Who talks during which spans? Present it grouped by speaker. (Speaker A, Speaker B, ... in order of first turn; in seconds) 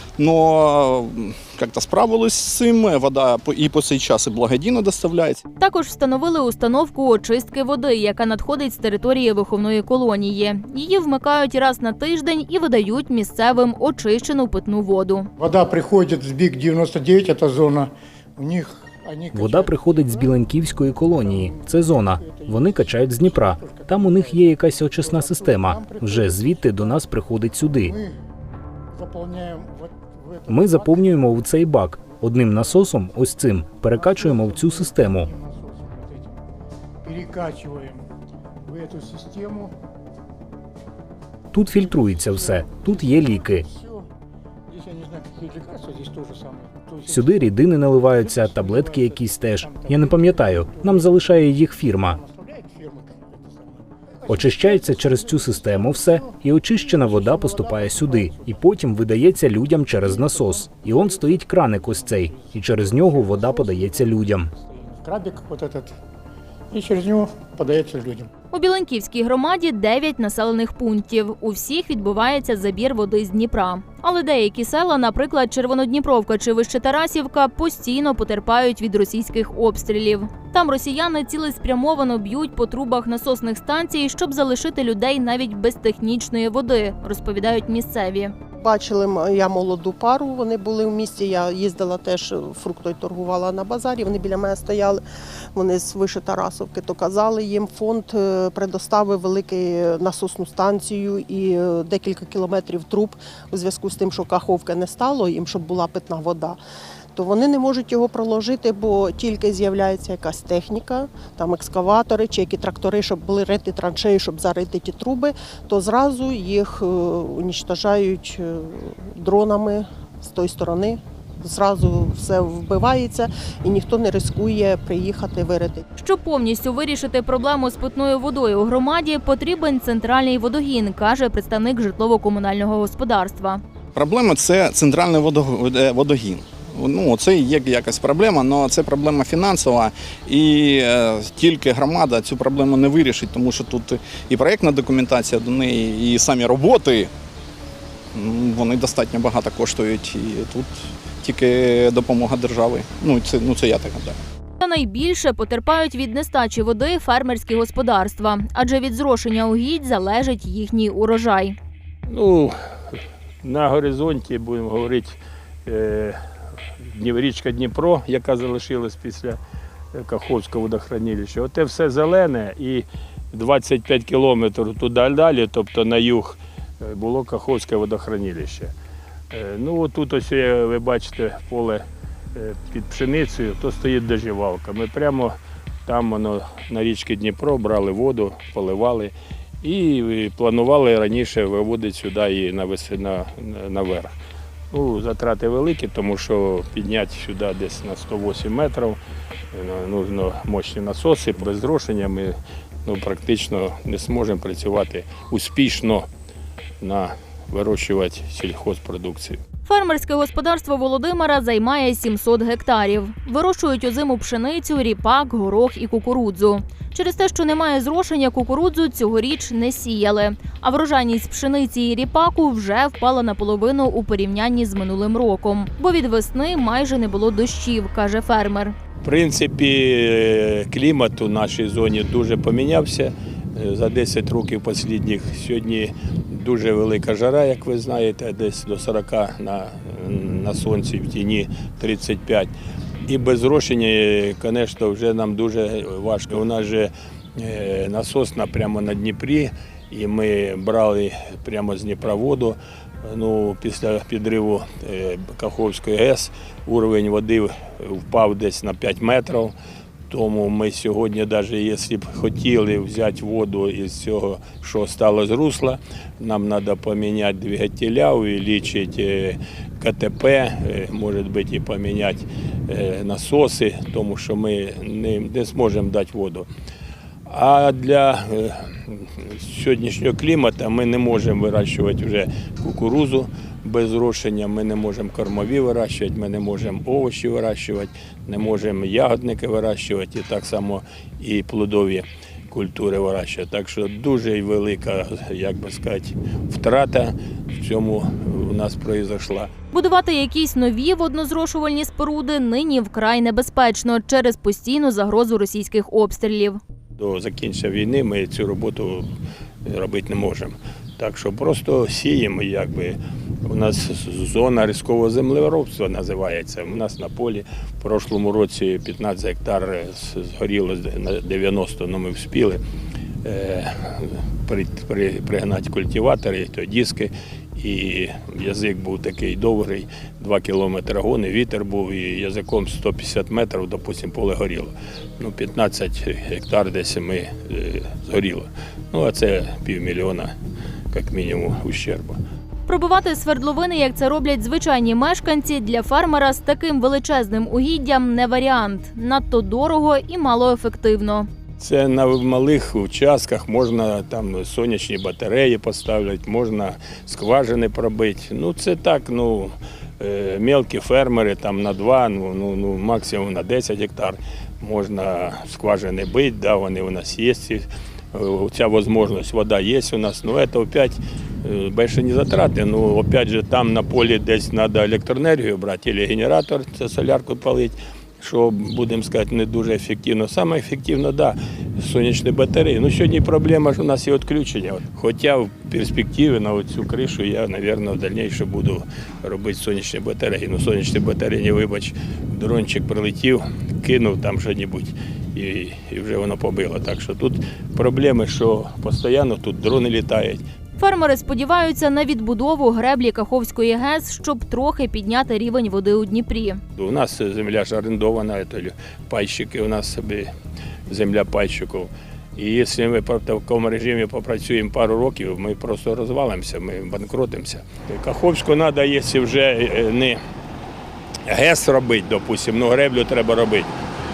Speaker A: 0.2-5.4, 133.9-147.1, 148.1-154.2
Speaker B: 5.6-15.3, 68.5-88.3, 126.0-133.6, 154.6-161.6, 209.7-228.8, 299.7-306.6, 342.7-351.3, 400.8-406.6
Speaker C: 15.4-20.5, 21.0-27.1, 27.8-28.2, 28.9-31.3, 33.9-36.4, 37.0-38.1, 38.6-39.7, 41.7-44.1, 44.7-59.3, 59.8-66.0, 66.7-68.3
Speaker D: 19.3-28.0, 30.5-35.3, 41.5-43.7, 47.1-52.2, 54.3-64.5
Speaker E: 88.6-95.0, 95.5-106.6, 107.2-125.8
Speaker F: 162.1-162.5, 163.4-166.2, 166.9-169.4, 169.9-178.7, 179.3-181.8, 182.3-194.1, 194.7-199.0, 199.5-202.3, 202.8-206.1, 206.8-209.4, 229.0-242.5, 243.1-259.5, 260.1-276.5, 277.3-299.5, 307.0-309.1, 309.7-322.6, 323.2-340.3, 340.9-342.2, 351.6-400.4, 406.8-410.3, 410.9-420.2, 421.3-423.7